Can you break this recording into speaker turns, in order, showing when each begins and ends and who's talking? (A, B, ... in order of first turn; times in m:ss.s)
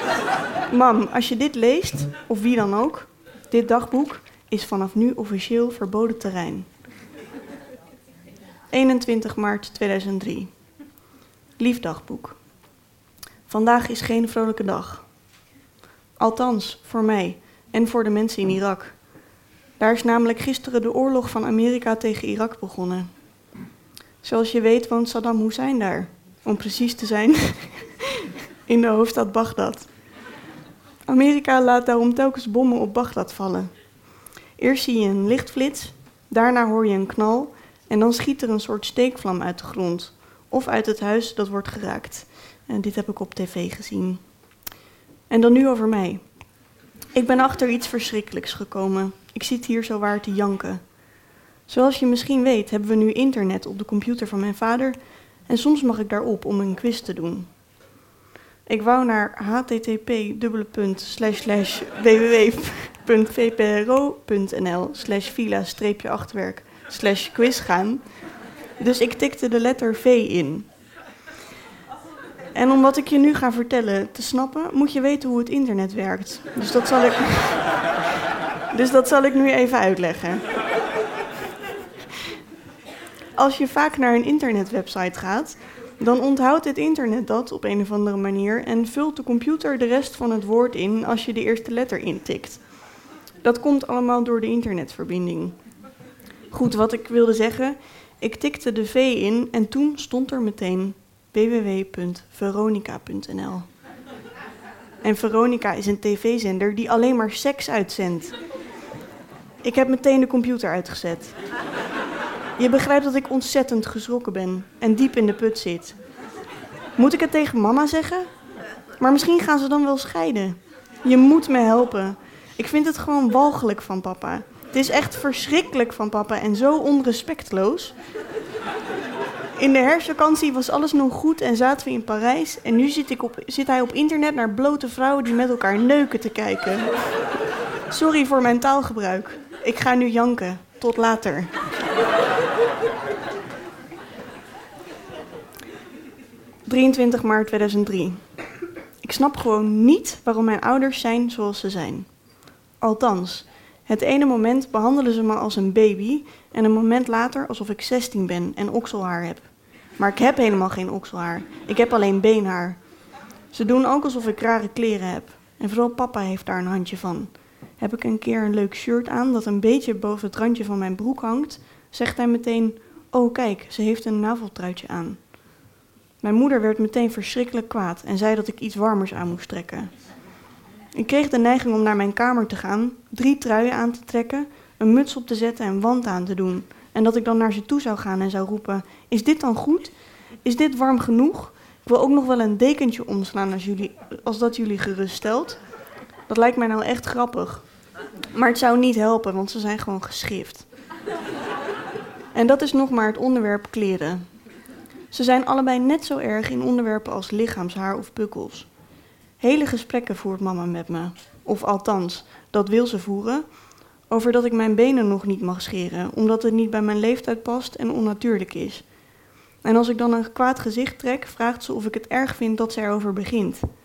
0:00.7-0:06.7 A
0:08.7-0:10.5 A
0:11.6-0:12.4 A
0:13.5-0:15.0 A
0:16.2-0:19.0 A
0:19.8-0:23.1 A
0:24.2-0:29.9 A
0:31.1-0:33.7 A
0:34.6-0:44.2 A
0:45.3-0:46.2 A
0:47.1-0:50.8 A
0:51.7-0:55.0 A
0:55.5-0:57.5 A
0:58.7-1:08.0 A
1:08.8-1:10.7 A
1:12.5-1:17.8 A
1:18.7-1:20.4 A
1:23.4-1:32.6 A
1:33.4-1:35.6 A
1:36.5-1:43.6 A
1:45.0-1:48.4 A
1:49.6-1:51.4 A
1:52.6-1:56.0 A
1:57.0-1:58.3 A
1:59.0-2:07.9 A
2:09.6-2:17.0 A
2:17.9-2:21.5 A
2:26.7-2:28.2 A
2:29.0-2:32.1 A
2:32.8-2:42.8 A
2:43.5-2:55.2 A
2:56.2-2:59.9 A
3:00.9-3:15.6 A
3:16.3-3:17.6 A
3:18.3-3:20.6 A
3:22.3-3:24.2 A
3:25.1-3:28.7 A
3:29.4-3:33.4 A
3:34.1-3:38.8 A
3:39.6-3:43.6 A